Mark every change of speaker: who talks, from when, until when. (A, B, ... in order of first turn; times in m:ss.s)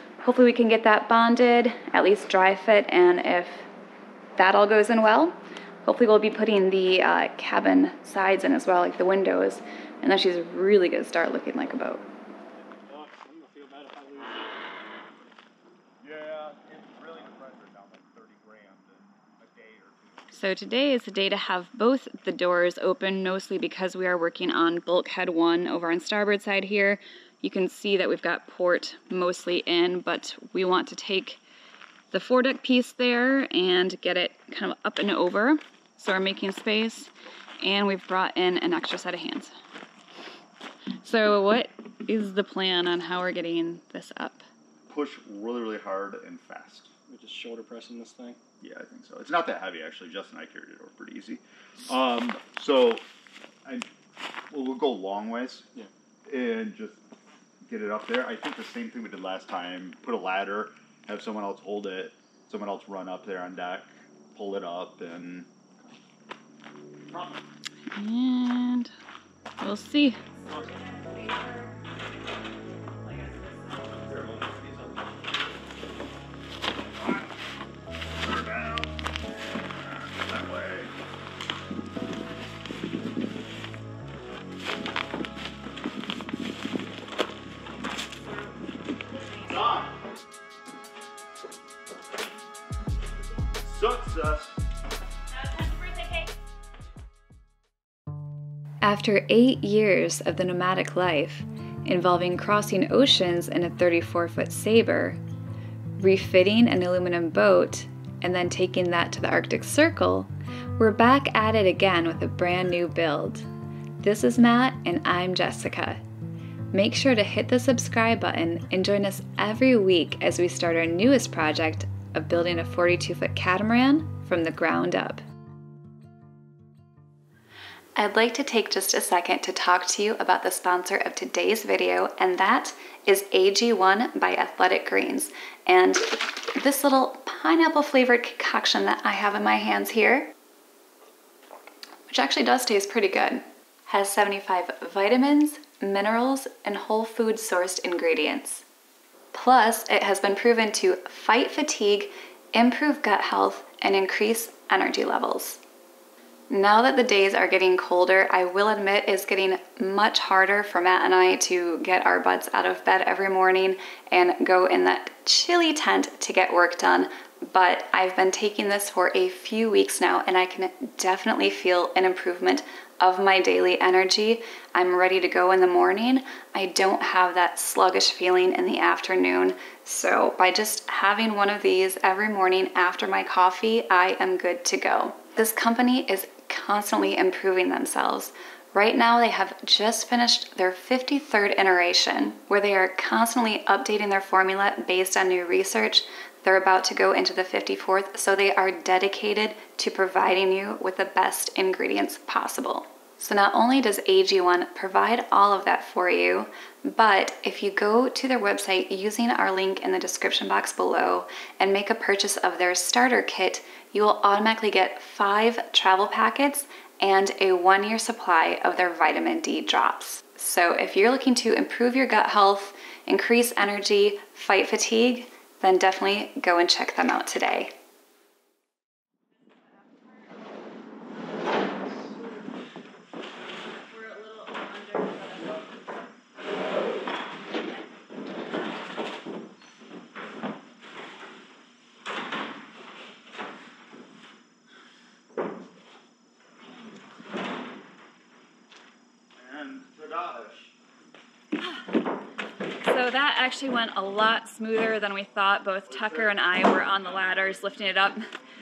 0:00.2-0:03.7 A
0:04.4-0:12.0 A
0:12.8-0:14.5 B
0:16.0-0:20.3 C
0:20.3-0:31.4 A
0:32.1-0:39.5 A
0:41.0-0:44.4 A
0:44.9-0:46.9 C
0:47.1-0:48.4 B
0:48.6-0:53.0 C
0:54.5-0:55.7 C
0:56.2-0:57.0 C
0:57.6-1:05.5 C
1:07.9-1:08.9 A
1:09.6-1:11.7 A
1:13.1-1:13.6 A
1:14.1-1:14.7 C
1:18.2-1:18.9 C
1:19.8-1:20.9 C
1:29.4-1:29.9 C
1:33.6-1:34.5 C
1:35.4-1:36.2 A
1:38.8-1:45.2 A
1:46.0-1:53.5 A
1:54.0-1:56.0 A
1:56.7-2:05.2 A
2:08.0-2:20.3 A
2:22.1-2:28.6 A
2:29.3-2:35.6 A
2:36.5-3:47.7 A
3:49.8-3:50.1 A
3:52.0-3:52.3 A
3:53.5-3:55.7 A
4:09.4-4:10.7 C
4:12.8-4:18.2 A